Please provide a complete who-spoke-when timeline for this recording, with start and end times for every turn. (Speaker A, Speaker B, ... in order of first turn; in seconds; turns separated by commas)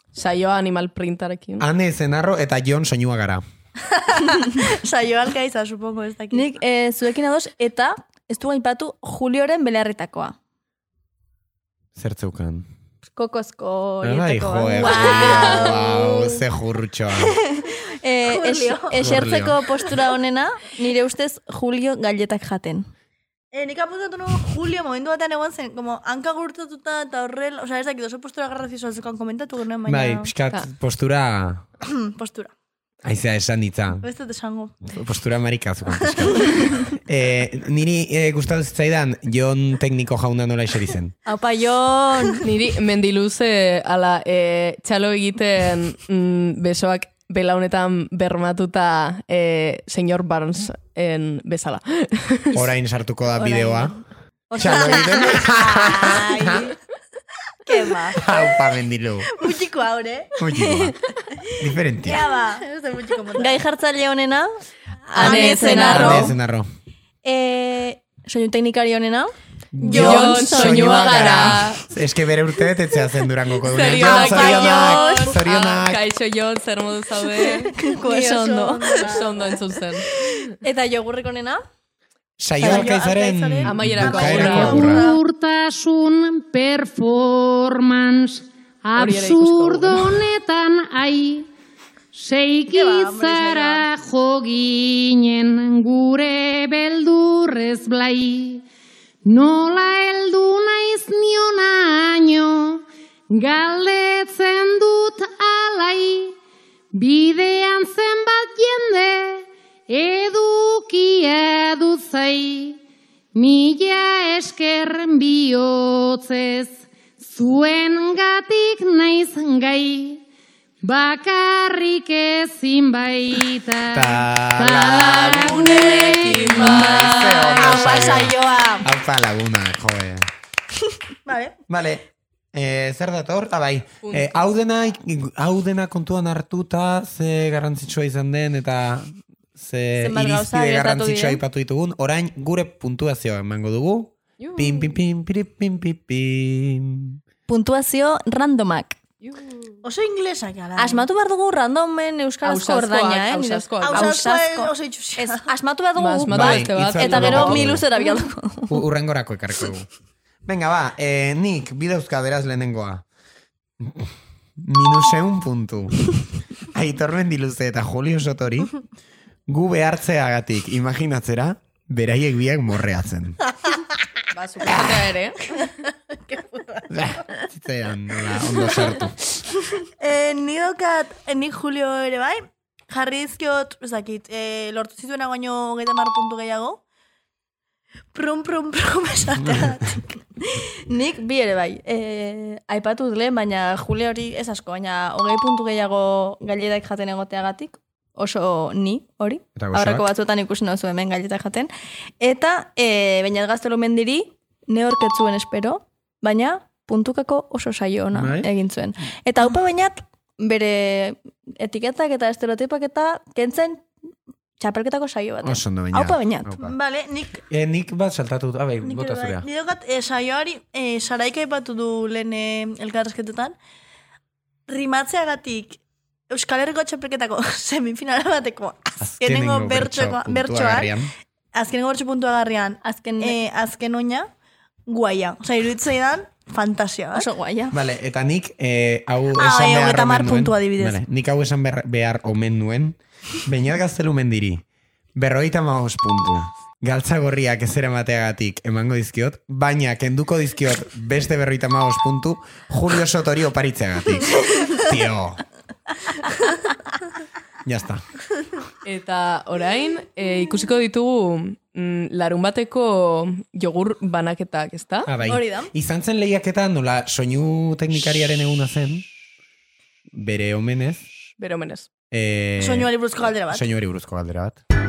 Speaker A: 0.1-1.6, Speaker B: 1.6-3.4, Speaker C: 4.0-6.5, Speaker D: 6.3-10.4, Speaker B: 11.9-12.7, Speaker D: 13.1-16.0, Speaker B: 14.0-17.4, Speaker C: 14.8-16.1, Speaker D: 18.0-22.9, Speaker C: 18.2-19.3, Speaker B: 19.0-19.6, Speaker C: 23.5-30.3, Speaker B: 29.9-31.6, Speaker C: 31.8-32.5, Speaker B: 33.0-34.0, Speaker C: 34.0-34.8, Speaker B: 34.9-41.1, Speaker D: 41.3-42.4, Speaker A: 42.4-52.5, Speaker B: 52.5-54.0, Speaker D: 53.4-54.0, Speaker D: 54.5-56.6, Speaker B: 54.6-56.7, Speaker C: 54.6-56.7, Speaker C: 57.7-58.6, Speaker D: 57.7-58.2, Speaker B: 58.2-59.3, Speaker C: 59.3-60.4, Speaker B: 60.4-60.9, Speaker B: 61.6-62.2, Speaker C: 62.0-63.6, Speaker D: 63.4-64.5, Speaker D: 65.1-66.3, Speaker A: 65.1-66.3, Speaker C: 65.2-66.3, Speaker B: 65.8-66.7, Speaker D: 67.2-69.3, Speaker B: 69.7-76.0, Speaker A: 69.9-71.8, Speaker D: 69.9-71.4, Speaker A: 73.7-77.7, Speaker C: 74.0-75.3, Speaker D: 77.8-79.2, Speaker C: 77.8-79.5, Speaker A: 79.0-80.1, Speaker D: 80.6-81.6, Speaker B: 82.4-85.1, Speaker C: 82.6-85.1, Speaker D: 82.6-83.0, Speaker A: 83.6-85.0, Speaker E: 84.5-91.5, Speaker A: 89.0-90.1, Speaker E: 92.1-98.6, Speaker C: 92.7-93.8, Speaker E: 99.2-106.3, Speaker E: 106.9-112.8, Speaker E: 113.3-120.2, Speaker E: 120.8-126.4, Speaker B: 123.9-130.3, Speaker A: 125.5-127.6, Speaker C: 127.5-128.8, Speaker D: 127.6-128.8, Speaker C: 131.3-131.6, Speaker B: 131.7-147.2, Speaker A: 134.0-134.3, Speaker D: 140.0-141.4, Speaker A: 144.4-144.9, Speaker D: 147.5-149.0, Speaker C: 149.8-151.1, Speaker D: 150.8-158.8, Speaker A: 152.4-154.2, Speaker C: 153.8-155.5, Speaker A: 156.0-157.7, Speaker B: 156.3-157.8, Speaker B: 158.7-159.9, Speaker B: 160.4-163.0, Speaker B: 163.8-166.1, Speaker B: 166.7-168.7, Speaker B: 169.5-173.4, Speaker A: 174.3-175.4, Speaker C: 176.3-176.9, Speaker B: 176.9-179.2, Speaker C: 180.0-186.8, Speaker C: 188.1-190.1, Speaker D: 190.9-201.7, Speaker B: 199.6-200.1, Speaker D: 202.2-213.9, Speaker B: 208.1-208.5, Speaker D: 214.6-216.5, Speaker B: 215.4-216.7, Speaker C: 216.6-217.4, Speaker B: 217.5-219.4, Speaker C: 218.8-223.6, Speaker C: 224.7-225.8, Speaker C: 226.3-231.0, Speaker B: 229.0-231.1, Speaker C: 231.6-234.3, Speaker D: 232.8-233.4, Speaker C: 234.9-237.3, Speaker D: 237.1-237.8, Speaker B: 237.7-244.6, Speaker C: 239.4-241.0, Speaker B: 245.2-255.4, Speaker B: 257.6-258.0, Speaker A: 258.8-265.1, Speaker B: 265.1-269.1, Speaker C: 265.4-265.7, Speaker B: 270.1-271.1, Speaker A: 271.4-271.9, Speaker B: 272.1-274.6, Speaker C: 272.6-273.7